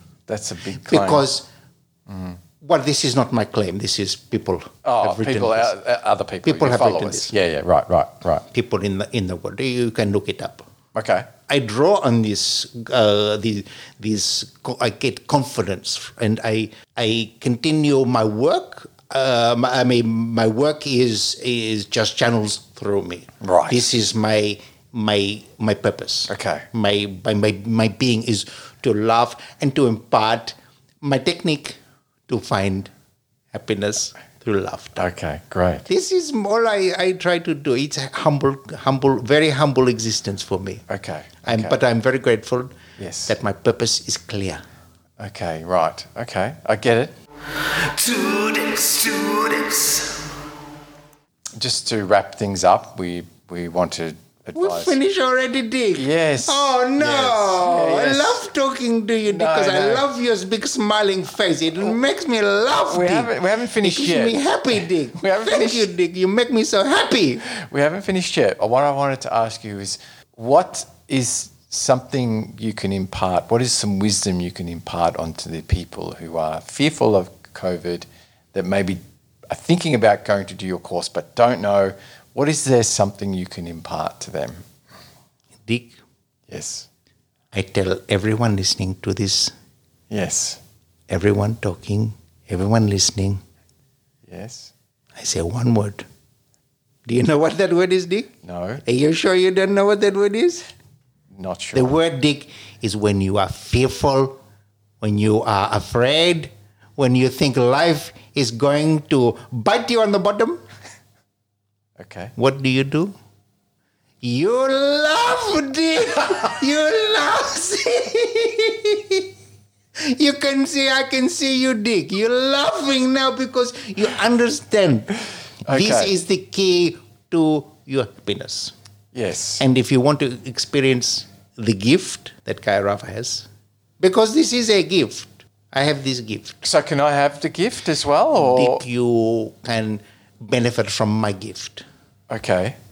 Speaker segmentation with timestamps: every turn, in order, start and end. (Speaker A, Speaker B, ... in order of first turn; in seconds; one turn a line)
Speaker A: 0.3-1.3
Speaker B: 0.8-1.5
Speaker A: 2.1-2.4
Speaker B: 2.6-5.7
Speaker A: 4.8-8.4
Speaker B: 6.4-7.3
Speaker B: 8.5-10.7
Speaker A: 10.9-11.3
Speaker B: 11.5-32.9
Speaker A: 23.4-23.9
Speaker A: 26.3-26.6
Speaker B: 33.5-35.0
Speaker A: 35.0-35.9
Speaker B: 35.9-40.8
Speaker A: 40.9-41.8
Speaker B: 41.4-44.6
Speaker A: 43.0-43.3
Speaker A: 45.2-47.1
Speaker B: 47.8-50.1
Speaker A: 51.6-55.0
Speaker B: 54.5-67.5
Speaker A: 56.0-58.4
Speaker A: 59.3-60.1
Speaker A: 62.8-65.9
Speaker A: 67.5-84.6
Speaker B: 85.7-86.0
Speaker A: 86.5-86.9
Speaker B: 87.5-89.5
Speaker A: 90.1-90.6
Speaker B: 91.1-93.4
Speaker A: 94.3-94.7
Speaker B: 95.2-96.0
Speaker B: 97.0-98.3
Speaker A: 98.4-98.8
Speaker B: 98.8-100.7
Speaker A: 101.3-102.0
Speaker B: 101.7-104.4
Speaker B: 105.0-110.6
Speaker A: 112.0-112.3
Speaker B: 112.3-113.1
Speaker B: 114.2-119.3
Speaker B: 120.0-128.7
Speaker A: 125.7-126.1
Speaker A: 129.1-129.6
Speaker B: 129.6-133.4
Speaker B: 134.0-136.7
Speaker A: 136.6-138.8
Speaker B: 138.3-141.8
Speaker A: 142.3-142.8